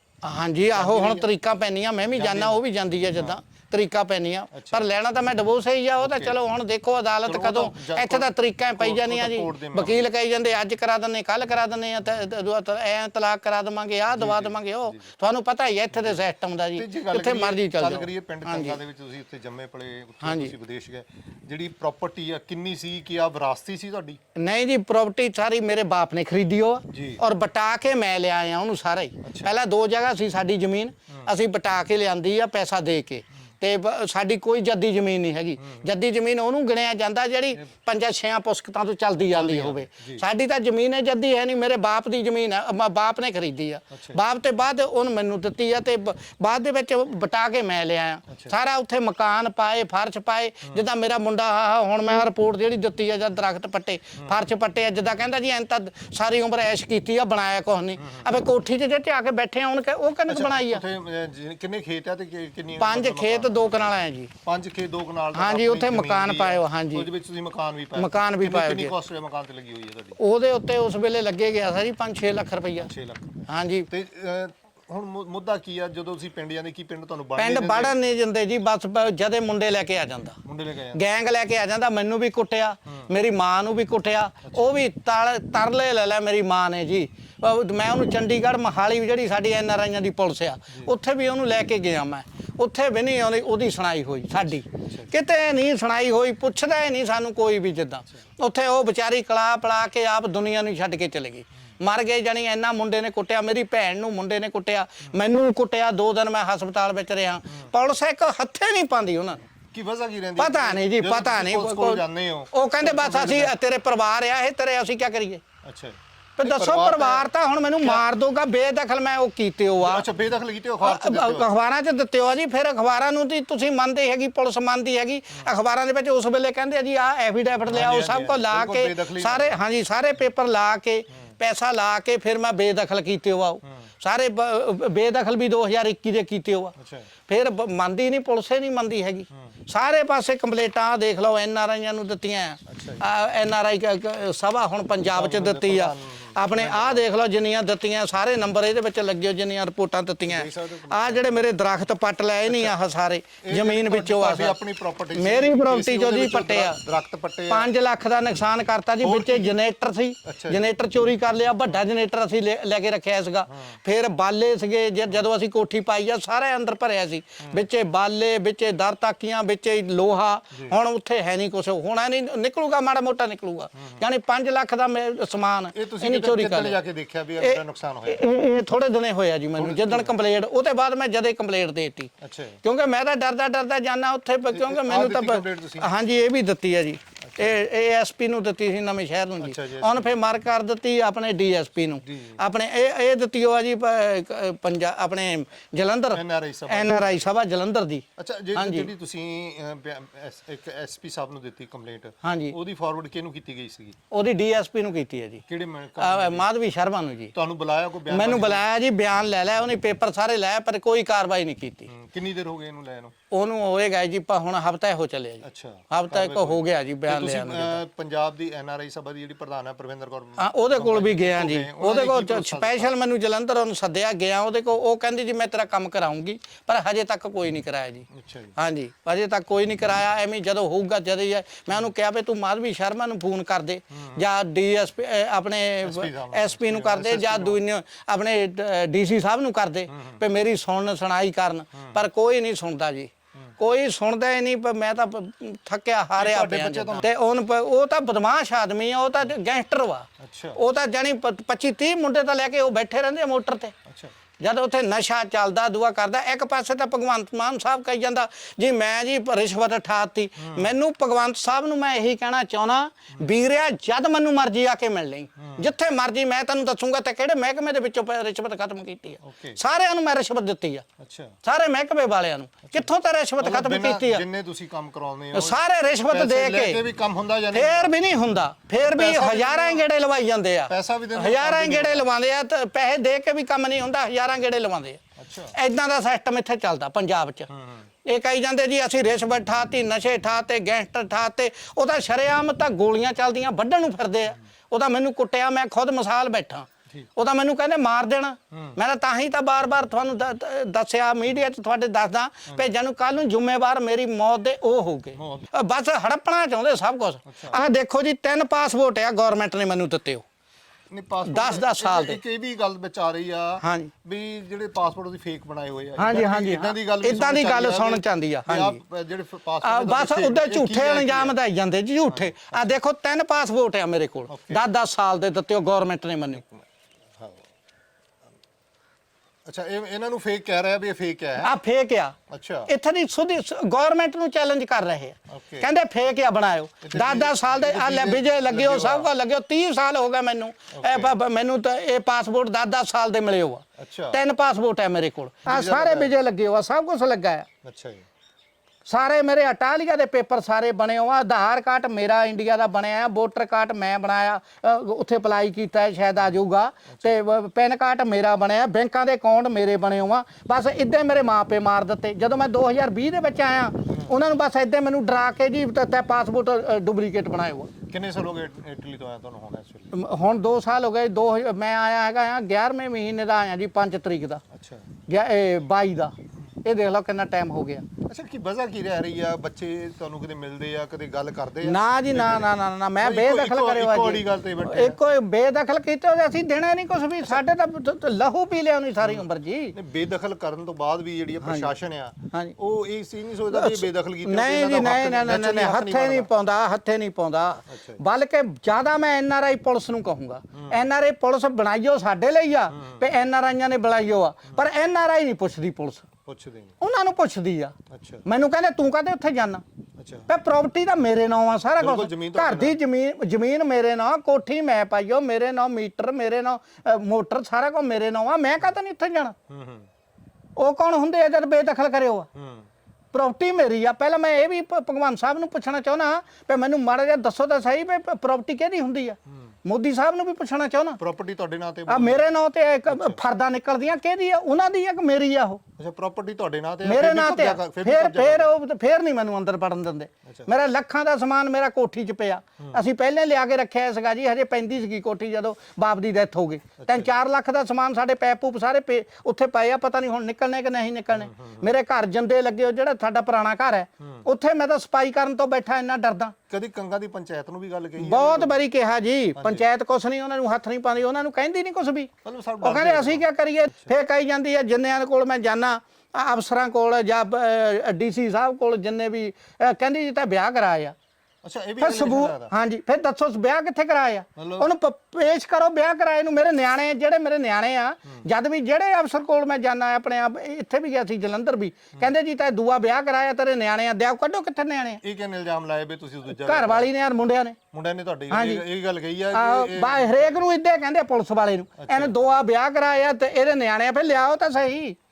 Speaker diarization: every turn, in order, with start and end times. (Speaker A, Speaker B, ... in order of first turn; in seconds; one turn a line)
Speaker A: 0.2-18.8
Speaker B: 0.7-1.3
Speaker B: 2.1-2.6
Speaker B: 4.5-4.9
Speaker B: 6.0-6.3
Speaker B: 7.2-10.1
Speaker B: 14.1-15.0
Speaker B: 15.9-16.2
Speaker B: 16.7-24.2
Speaker A: 20.2-20.5
Speaker A: 24.4-60.8
Speaker B: 26.9-27.2
Speaker B: 29.2-29.5
Speaker B: 35.6-35.9
Speaker B: 39.2-40.2
Speaker B: 43.9-44.2
Speaker B: 48.3-48.5
Speaker B: 58.0-58.3
Speaker B: 60.3-70.2
Speaker A: 62.8-64.3
Speaker A: 65.3-67.1
Speaker A: 68.0-68.9
Speaker A: 70.2-72.9
Speaker B: 72.8-78.0
Speaker A: 73.5-73.9
Speaker A: 77.4-80.4
Speaker B: 80.4-81.0
Speaker A: 80.9-109.5
Speaker B: 84.4-84.8
Speaker B: 94.7-95.1
Speaker B: 109.7-113.5
Speaker A: 110.4-115.4
Speaker B: 115.6-118.1
Speaker A: 116.4-120.0
Speaker B: 119.8-121.5
Speaker A: 120.8-136.7
Speaker B: 127.7-129.6
Speaker B: 136.8-137.1
Speaker A: 137.3-154.6
Speaker B: 142.7-143.0
Speaker B: 145.1-147.1
Speaker B: 150.2-151.4
Speaker B: 152.5-152.7
Speaker B: 153.4-157.7
Speaker A: 155.1-156.8
Speaker A: 157.5-176.8
Speaker B: 159.0-159.6
Speaker B: 160.2-160.6
Speaker B: 163.5-163.8
Speaker B: 173.8-174.0
Speaker B: 175.7-178.2
Speaker A: 177.4-182.1
Speaker B: 179.6-180.1
Speaker B: 182.2-182.6
Speaker A: 182.6-198.0
Speaker B: 184.5-185.9
Speaker B: 187.2-187.6
Speaker B: 189.4-190.2
Speaker B: 192.0-192.4
Speaker B: 196.1-197.2
Speaker B: 198.2-204.0
Speaker A: 198.6-198.9
Speaker A: 202.2-202.6
Speaker A: 204.1-205.4
Speaker B: 205.5-206.5
Speaker A: 206.0-207.3
Speaker B: 207.3-208.6
Speaker A: 208.1-211.9
Speaker B: 211.9-213.1
Speaker A: 213.3-217.8
Speaker B: 215.4-222.9
Speaker A: 220.4-253.7
Speaker B: 228.1-228.5
Speaker B: 233.9-234.2
Speaker B: 235.8-237.6
Speaker B: 239.9-240.2
Speaker B: 246.2-247.1
Speaker B: 250.2-250.6
Speaker B: 253.8-254.1
Speaker A: 254.4-270.9
Speaker B: 260.4-260.7
Speaker B: 265.4-265.7
Speaker B: 269.2-269.6
Speaker B: 271.0-271.3
Speaker A: 271.4-274.2
Speaker B: 273.4-277.9
Speaker A: 275.3-276.8
Speaker A: 277.5-287.5
Speaker B: 278.8-279.9
Speaker B: 280.7-282.1
Speaker B: 285.2-285.5
Speaker B: 287.5-287.9
Speaker A: 288.0-310.2
Speaker B: 298.5-298.8
Speaker B: 302.5-302.7
Speaker B: 305.2-305.5
Speaker B: 307.2-307.6
Speaker B: 310.9-321.4
Speaker A: 311.2-312.2
Speaker A: 313.6-313.9
Speaker A: 316.0-318.8
Speaker A: 319.6-326.4
Speaker B: 322.1-322.8
Speaker B: 324.3-324.6
Speaker B: 326.4-326.6
Speaker B: 329.4-331.5
Speaker A: 331.4-332.1
Speaker B: 332.3-332.7
Speaker A: 332.7-347.5
Speaker B: 335.3-335.7
Speaker B: 336.8-339.1
Speaker B: 340.7-341.1
Speaker B: 343.8-344.2
Speaker B: 345.4-346.1
Speaker B: 347.6-348.0
Speaker A: 348.9-367.7
Speaker B: 356.9-357.2
Speaker B: 367.9-369.9
Speaker A: 369.9-374.4
Speaker B: 374.5-374.9
Speaker A: 375.1-377.8
Speaker B: 378.0-385.0
Speaker A: 381.6-389.7
Speaker B: 389.0-396.3
Speaker A: 391.4-391.7
Speaker A: 393.5-406.1
Speaker B: 397.7-398.0
Speaker B: 400.5-400.8
Speaker B: 402.7-403.1
Speaker B: 406.2-406.8
Speaker A: 406.8-409.6
Speaker B: 407.9-408.2
Speaker B: 410.0-410.3
Speaker A: 410.3-419.3
Speaker B: 411.8-412.8
Speaker B: 419.5-419.9
Speaker A: 420.6-422.3
Speaker B: 422.3-422.7
Speaker A: 423.1-431.0
Speaker B: 431.0-432.3
Speaker A: 431.9-435.6
Speaker B: 432.9-433.2
Speaker B: 435.8-438.5
Speaker A: 436.8-456.3
Speaker B: 440.2-440.5
Speaker B: 446.8-447.1
Speaker B: 451.1-451.7
Speaker B: 454.0-454.2
Speaker B: 456.5-458.6
Speaker A: 458.0-462.1
Speaker B: 459.4-459.6
Speaker B: 462.2-463.9
Speaker A: 462.6-470.9
Speaker B: 471.4-472.5
Speaker A: 471.8-485.0
Speaker B: 474.4-474.7
Speaker B: 485.0-486.9
Speaker A: 486.3-487.6
Speaker B: 487.7-490.4
Speaker A: 488.3-488.6
Speaker A: 489.3-495.0
Speaker B: 491.8-492.1